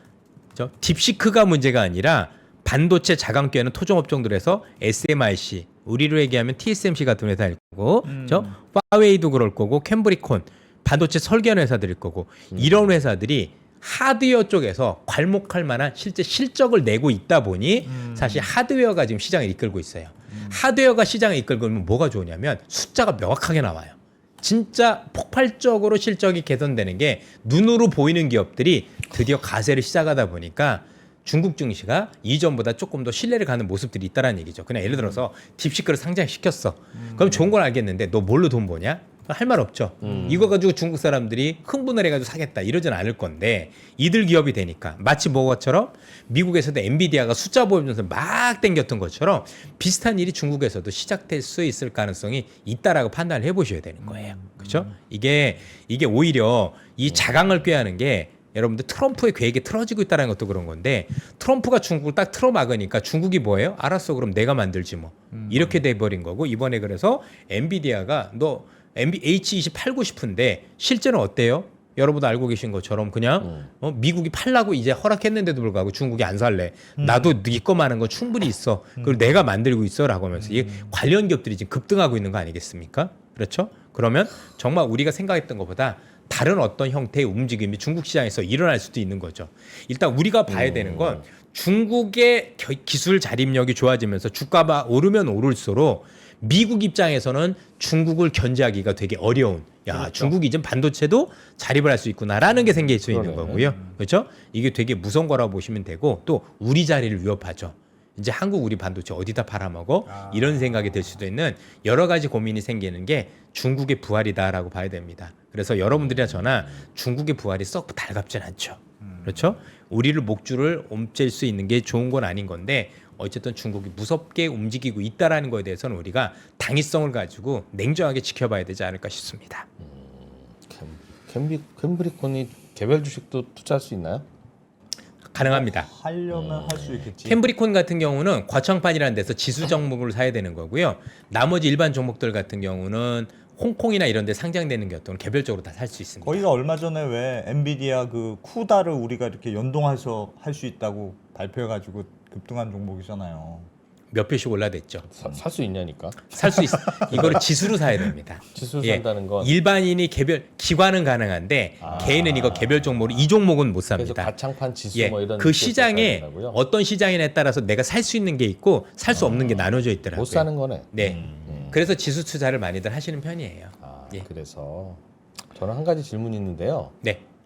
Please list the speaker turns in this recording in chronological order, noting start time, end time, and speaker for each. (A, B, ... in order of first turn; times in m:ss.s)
0:00.5-2:09.6 A
0:08.0-0:08.5 B
0:12.5-0:13.0 C
0:17.8-0:18.5 B
0:20.3-0:20.6 B
0:40.0-0:40.5 C
0:54.0-0:54.9 B
1:05.3-1:05.7 B
1:13.4-1:13.7 C
1:17.0-1:17.4 B
1:19.0-1:19.3 B
1:20.3-1:20.9 B
1:30.5-1:31.2 C
1:40.0-1:40.2 B
1:42.6-1:42.9 B
1:43.0-1:43.7 C
1:43.5-1:43.9 B
1:50.1-1:51.1 B
1:55.9-1:56.8 C
1:59.0-1:59.4 B
2:09.8-2:14.2 C
2:15.3-2:15.9 A
2:15.4-2:17.4 B
2:16.3-2:17.1 C
2:17.2-2:26.4 A
2:26.2-2:33.7 B
2:34.1-2:35.0 A
2:35.0-2:37.4 C
2:36.3-2:44.3 A
2:36.7-2:37.3 B
2:38.5-2:39.5 C
2:41.8-2:43.0 C
2:41.8-2:42.8 B
2:43.9-2:46.6 C
2:44.9-2:54.2 A
2:49.1-2:50.9 C
2:51.0-2:51.7 B
2:51.4-2:51.8 C
2:53.8-2:55.0 C
2:55.5-2:56.9 C